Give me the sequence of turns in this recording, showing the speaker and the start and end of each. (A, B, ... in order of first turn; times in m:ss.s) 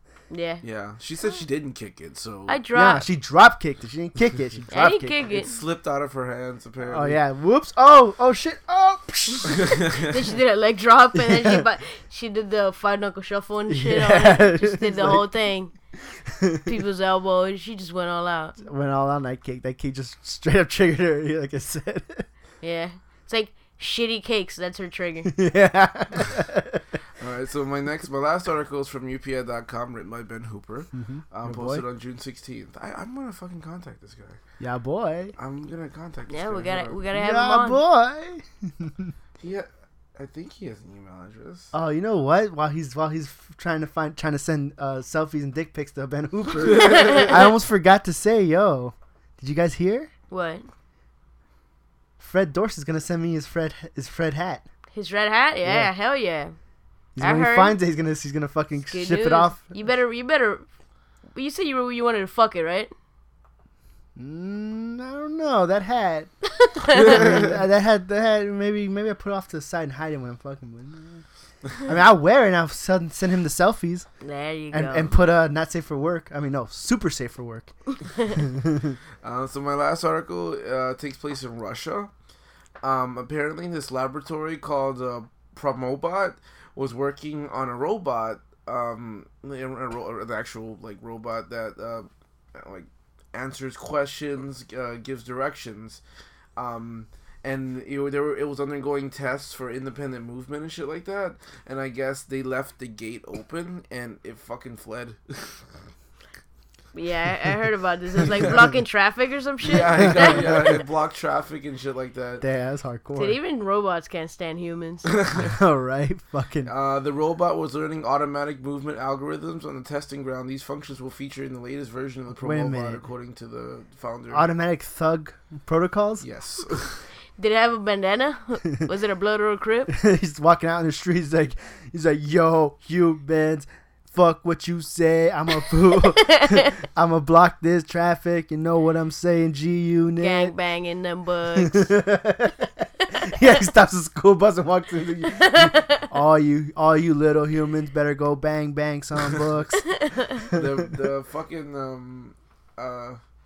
0:00.3-0:00.6 A
0:00.6-0:02.6 B
0:02.5-0:03.0 A
0:02.7-0:05.2 C
0:04.7-0:05.5 A
0:05.2-0:07.2 B
0:06.9-0:09.7 C
0:09.6-0:10.1 B
0:10.0-0:15.7 A
0:11.2-0:11.6 C
0:13.7-0:15.3 C
0:16.3-0:16.7 C
0:16.6-0:18.6 A
0:18.6-0:22.2 C
0:22.6-0:25.3 A
0:25.3-0:26.8 C
0:27.2-0:34.4 B
0:30.9-0:31.8 C
0:34.6-0:35.3 C
0:35.4-0:37.0 B
0:36.3-0:37.8 A
0:37.1-0:39.1 C
0:39.4-0:41.7 B
0:41.7-0:50.1 C
0:46.7-0:47.3 B
0:47.0-0:47.3 A
0:50.3-0:50.7 A
0:52.2-0:54.6 C
0:54.9-0:56.5 A
0:55.6-0:55.9 C
0:57.2-0:59.7 C
0:57.2-0:57.8 A
0:58.9-1:00.6 A
1:01.3-1:02.9 A
1:04.2-1:06.3 C
1:06.8-1:07.2 A
1:06.9-1:11.2 C
1:11.8-1:14.1 C
1:14.2-1:15.2 A
1:14.7-1:17.7 C
1:18.3-1:19.0 C
1:19.2-1:22.1 B
1:22.8-1:36.0 B
1:36.6-1:45.5 B
1:46.9-1:50.6 A
1:49.6-1:52.4 B
1:52.4-1:53.3 C
1:53.1-1:55.1 A
1:55.1-1:55.5 B
1:55.4-1:56.7 C
1:56.6-2:04.5 B
2:02.4-2:03.0 C
2:04.3-2:06.2 C
2:06.2-2:07.0 B
2:07.4-2:09.9 A
2:09.9-2:20.5 C
2:16.3-2:16.6 A
2:20.2-2:21.9 A
2:21.6-2:29.8 C
2:25.3-2:26.1 A
2:29.8-2:30.4 A
2:30.5-2:33.2 B